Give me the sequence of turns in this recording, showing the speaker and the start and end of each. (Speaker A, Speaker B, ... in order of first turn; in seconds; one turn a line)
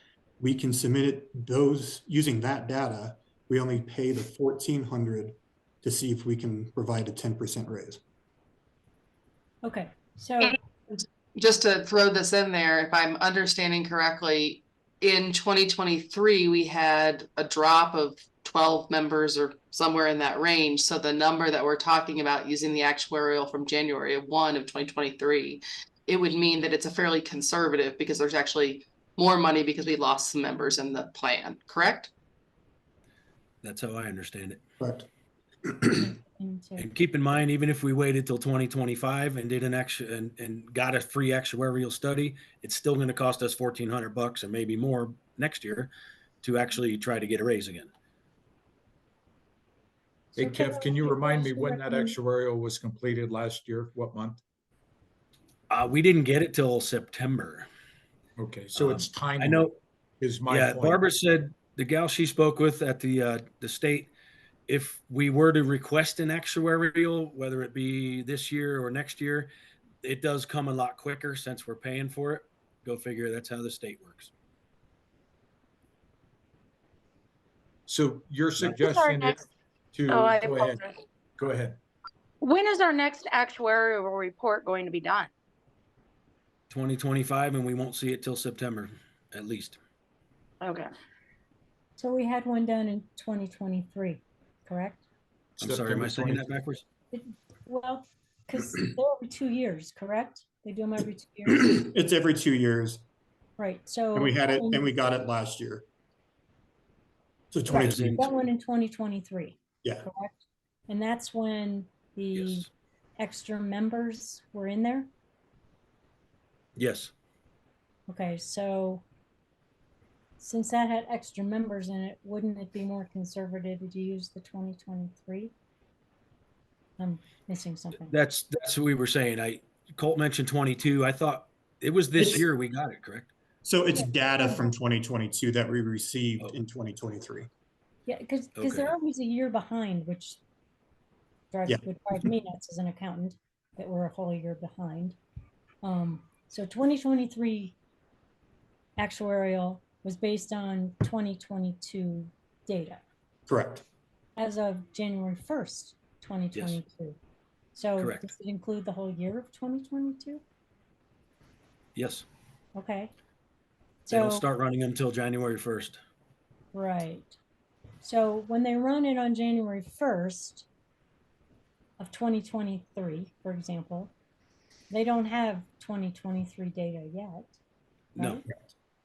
Speaker A: 0.4-8.0
Speaker B: 9.6-10.6
Speaker C: 10.4-32.1
Speaker D: 33.6-34.6
Speaker A: 34.8-35.1
Speaker B: 35.9-36.9
Speaker D: 36.8-45.9
Speaker D: 46.4-47.9
Speaker E: 50.4-54.4
Speaker B: 50.4-52.2
Speaker D: 55.7-57.7
Speaker E: 58.4-61.1
Speaker D: 58.7-59.8
Speaker D: 60.5-64.1
Speaker D: 64.7-69.5
Speaker D: 70.0-74.3
Speaker E: 77.9-80.8
Speaker F: 78.6-79.4
Speaker F: 80.1-80.9
Speaker E: 81.4-81.8
Speaker F: 82.4-85.3
Speaker D: 86.7-89.8
Speaker F: 90.6-90.9
Speaker B: 92.0-95.0
Speaker E: 95.6-96.6
Speaker D: 95.6-96.8
Speaker B: 97.1-101.9
Speaker A: 101.7-103.0
Speaker B: 103.6-104.9
Speaker A: 104.2-105.9
Speaker A: 107.5-108.2
Speaker D: 107.7-108.3
Speaker B: 107.7-115.1
Speaker D: 112.3-112.7
Speaker D: 116.8-117.1
Speaker B: 118.1-119.0
Speaker B: 120.4-125.5
Speaker B: 127.0-128.2
Speaker D: 128.1-133.3
Speaker A: 132.2-132.4
Speaker A: 133.6-137.5
Speaker B: 133.9-134.7
Speaker B: 138.1-140.4
Speaker D: 138.6-138.9
Speaker B: 141.5-145.2
Speaker A: 141.7-142.3
Speaker B: 145.8-147.8
Speaker B: 149.0-153.0
Speaker A: 153.5-153.8
Speaker B: 154.4-157.2
Speaker D: 156.5-156.8
Speaker B: 157.8-160.4
Speaker D: 158.0-158.3
Speaker D: 162.0-162.3
Speaker B: 162.8-163.1
Speaker B: 164.1-164.5
Speaker D: 164.1-166.0
Speaker B: 166.7-167.4
Speaker B: 168.0-170.7
Speaker B: 172.0-174.1
Speaker B: 174.9-177.6
Speaker B: 178.2-178.5